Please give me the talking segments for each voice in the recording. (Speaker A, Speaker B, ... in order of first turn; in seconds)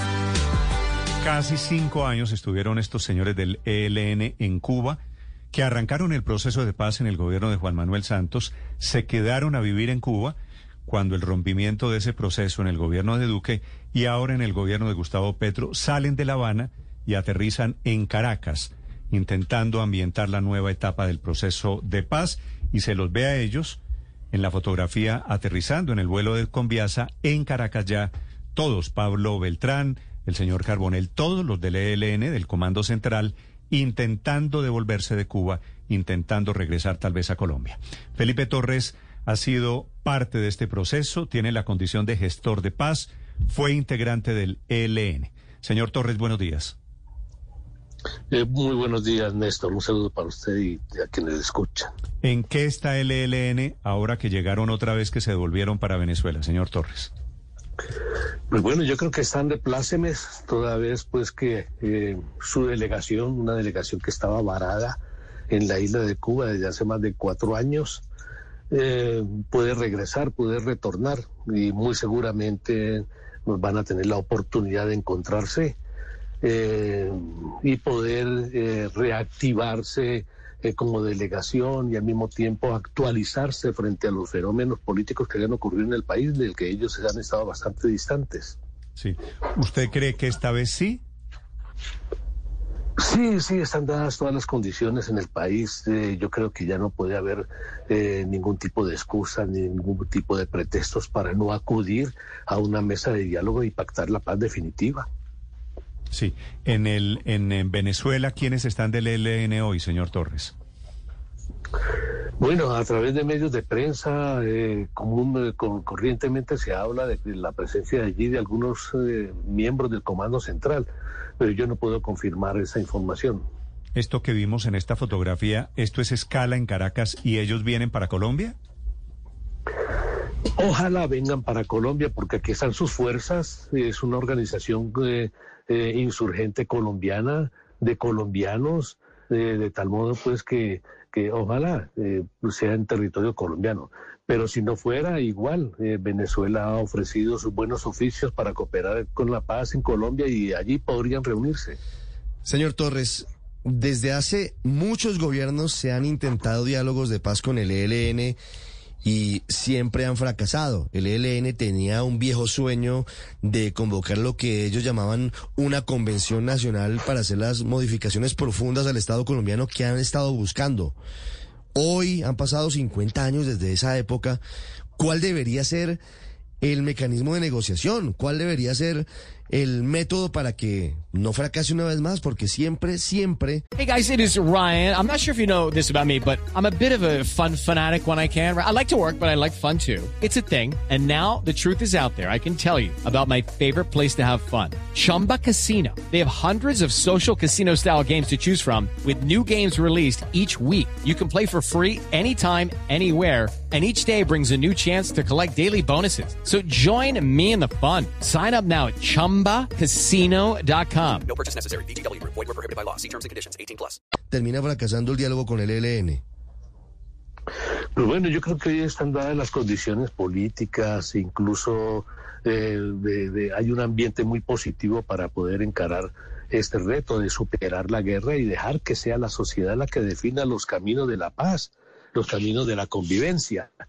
Speaker A: 1.2-5.0, 5.5-23.8, 24.3-46.8, 52.2-57.1, 89.0-91.0, 106.1-110.5, 124.0-128.6
Speaker B: 48.3-51.9, 58.5-65.0, 65.5-68.0, 68.7-75.8, 76.4-88.6, 93.0-105.1, 112.4-123.4, 130.6-151.8, 218.0-233.7
Speaker C: 152.4-158.4, 159.0-171.0, 171.8-174.4, 175.0-176.0, 176.6-183.6, 214.3-216.2
Speaker D: 183.8-211.2
Speaker E: 211.2-214.0